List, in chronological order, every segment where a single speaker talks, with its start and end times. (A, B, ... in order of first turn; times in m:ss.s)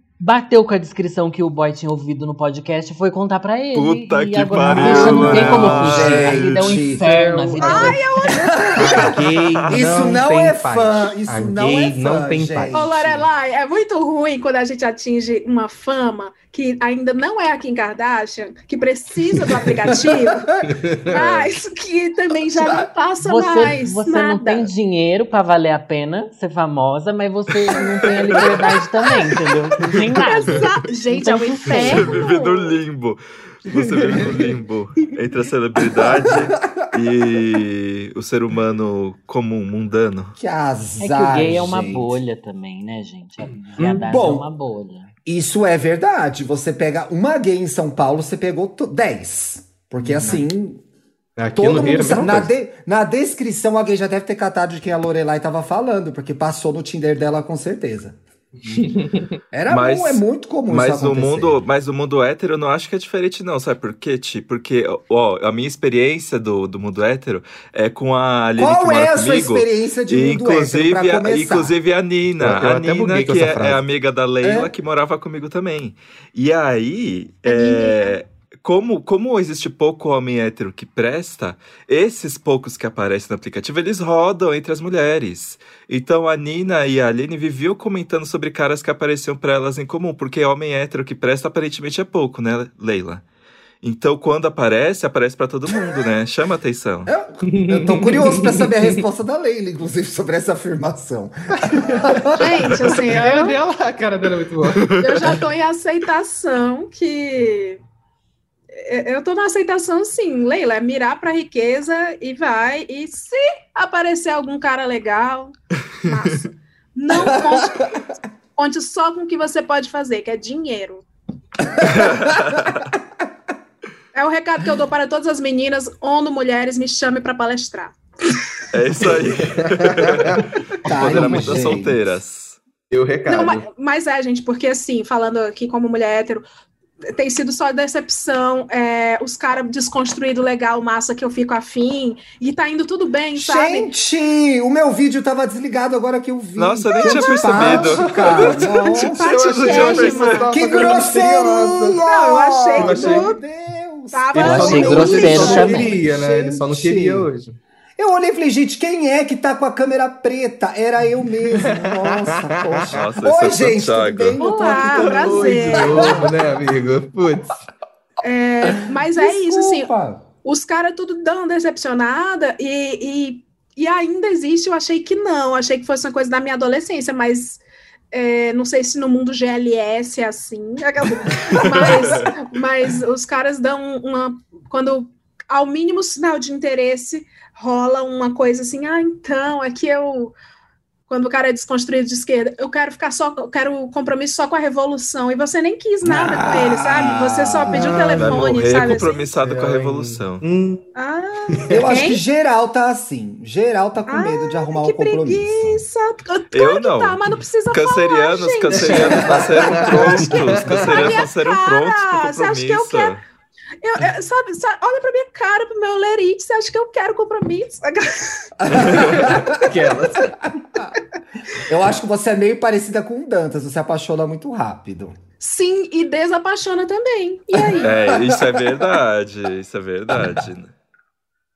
0:00.2-0:08.0 A
0:03.7-0:06.5 B
0:04.6-0:07.0 C
0:04.7-0:08.0 D
0:07.6-0:09.2 E
0:08.6-0:09.0 C
0:08.7-0:12.9 D
0:09.1-0:09.8 B
0:09.7-0:13.3 C
0:12.7-0:20.5 E
0:20.6-0:21.2 D
0:21.1-0:24.7 E
0:21.1-0:21.5 B
0:23.2-0:32.2 A
0:30.1-0:32.8 E
0:31.6-0:40.4 B
0:33.7-0:34.6 D
0:36.2-0:36.5 C
0:40.4-0:42.2 C
0:41.0-0:45.1 A
0:43.8-0:44.1 D
0:44.0-0:44.4 C
0:45.2-0:50.8 C
0:50.0-0:50.4 D
0:51.4-0:52.5 D
0:51.6-0:58.2 C
0:58.6-0:59.4 D
0:59.5-1:01.6 C
0:59.7-1:33.2 B
1:08.6-1:11.7 C
1:12.4-1:13.8 D
1:14.4-1:14.7 C
1:17.4-1:18.2 E
1:33.8-1:37.1 B
1:37.0-1:42.6 C
1:37.4-1:39.0 D
1:41.7-1:42.4 D
1:42.4-1:43.6 E
1:43.0-1:45.3 D
1:44.8-1:45.4 B
1:45.0-1:47.8 E
1:48.7-2:01.0 E
1:56.1-1:56.3 B
1:57.1-1:58.1 C
2:01.8-2:02.6 C
2:01.8-2:02.9 B
2:04.1-2:08.4 E
2:08.7-2:12.6 B
2:09.4-2:11.6 D
2:10.8-2:12.1 C
2:12.9-2:13.6 D
2:13.2-2:16.4 E
2:17.1-2:23.9 E
2:23.3-2:29.2 C
2:26.6-2:30.5 B
2:26.9-2:27.9 E
2:27.6-2:32.0 D
2:28.6-2:30.9 E
2:30.5-2:37.3 C
2:32.0-2:33.4 E
2:32.8-2:33.3 D
2:34.1-2:36.0 E
2:34.3-2:37.6 D
2:34.4-2:35.9 A
2:38.0-2:46.2 C
2:41.5-2:43.0 D
2:42.9-2:44.4 B
2:44.4-2:46.3 E
2:44.8-2:47.6 D
2:48.2-2:49.9 E
2:49.0-2:50.2 C
2:50.4-3:10.3 E
3:01.6-3:02.3 B
3:11.1-3:19.3 E
3:16.0-3:18.1 C
3:17.7-3:20.9 D
3:18.2-3:20.4 B
3:21.0-3:22.2 E
3:21.5-3:22.0 D
3:21.7-3:25.8 C
3:24.1-3:33.1 E
3:26.5-3:33.2 B
3:28.7-3:31.2 D
3:29.2-3:30.0 C
3:33.8-3:38.5 E
3:38.6-3:39.7 C
3:38.8-3:40.4 D
3:40.6-3:41.0 C
3:41.6-3:45.2 C
3:45.4-3:47.9 E
3:47.6-3:48.6 C
3:47.8-3:50.7 B